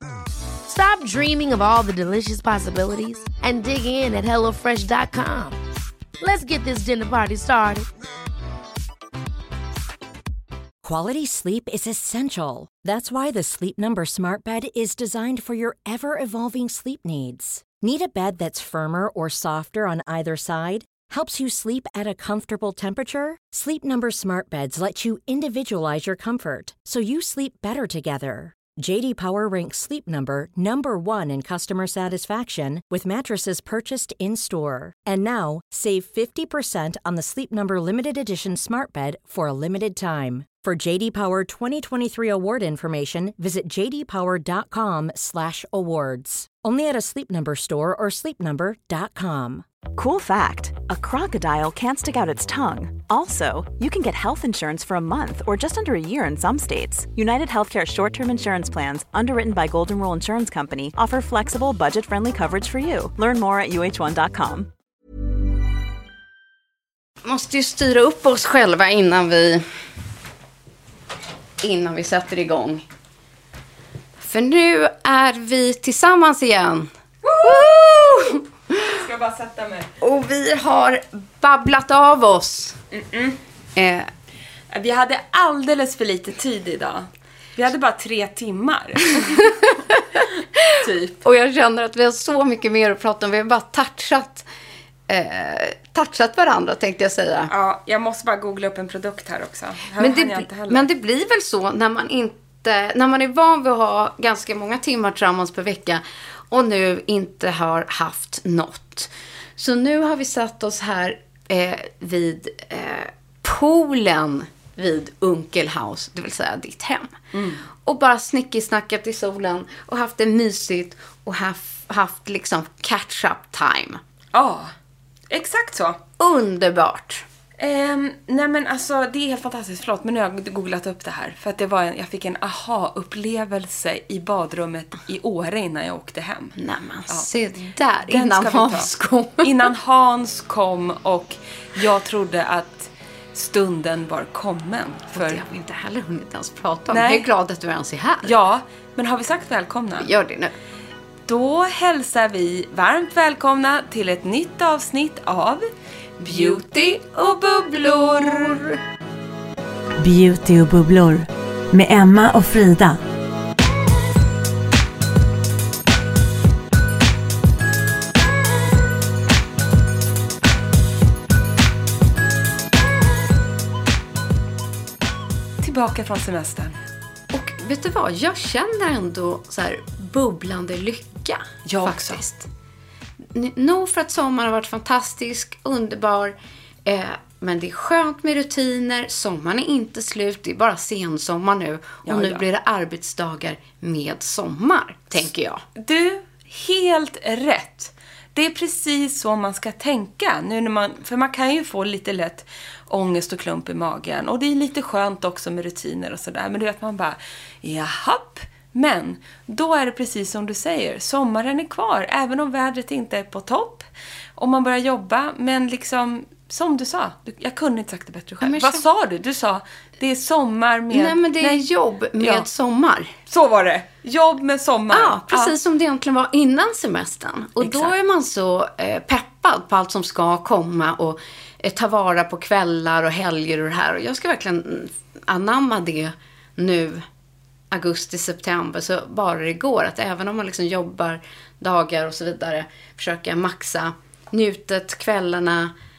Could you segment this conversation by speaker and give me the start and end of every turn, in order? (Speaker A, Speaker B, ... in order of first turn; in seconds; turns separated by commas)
Speaker A: 0.7-5.6, Speaker A: 6.2-7.9, Speaker B: 10.8-49.6, Speaker C: 49.9-64.7, Speaker D: 67.2-69.6, Speaker D: 71.6-72.8, Speaker D: 74.2-78.9, Speaker E: 77.2-79.9, Speaker D: 80.0-82.8, Speaker E: 82.9-83.4, Speaker D: 83.8-84.1, Speaker E: 84.7-89.7, Speaker D: 89.1-94.5, Speaker E: 90.8-91.2, Speaker D: 95.1-97.5, Speaker E: 97.5-100.8, Speaker D: 100.0-117.1, Speaker E: 117.3-117.6, Speaker D: 117.8-124.0, Speaker E: 124.3-124.7, Speaker E: 125.3-126.0, Speaker D: 126.2-127.2, Speaker E: 127.6-136.5, Speaker D: 136.6-139.7, Speaker E: 138.1-138.9, Speaker E: 139.4-145.4, Speaker D: 145.1-148.3, Speaker E: 146.9-147.3, Speaker E: 148.2-150.1, Speaker D: 150.0-150.5, Speaker E: 151.3-155.6, Speaker D: 156.2-158.8, Speaker E: 156.2-158.6, Speaker F: 160.0-163.0, Speaker E: 175.6-176.8, Speaker D: 177.3-182.5, Speaker E: 181.7-182.2, Speaker D: 183.3-195.6, Speaker E: 192.0-192.4, Speaker E: 195.8-213.8, Speaker E: 214.4-221.6, Speaker D: 218.4-218.8, Speaker D: 220.9-223.1, Speaker E: 222.2-222.5, Speaker E: 223.3-225.5, Speaker D: 224.9-237.0, Speaker E: 227.6-227.9, Speaker D: 237.7-245.7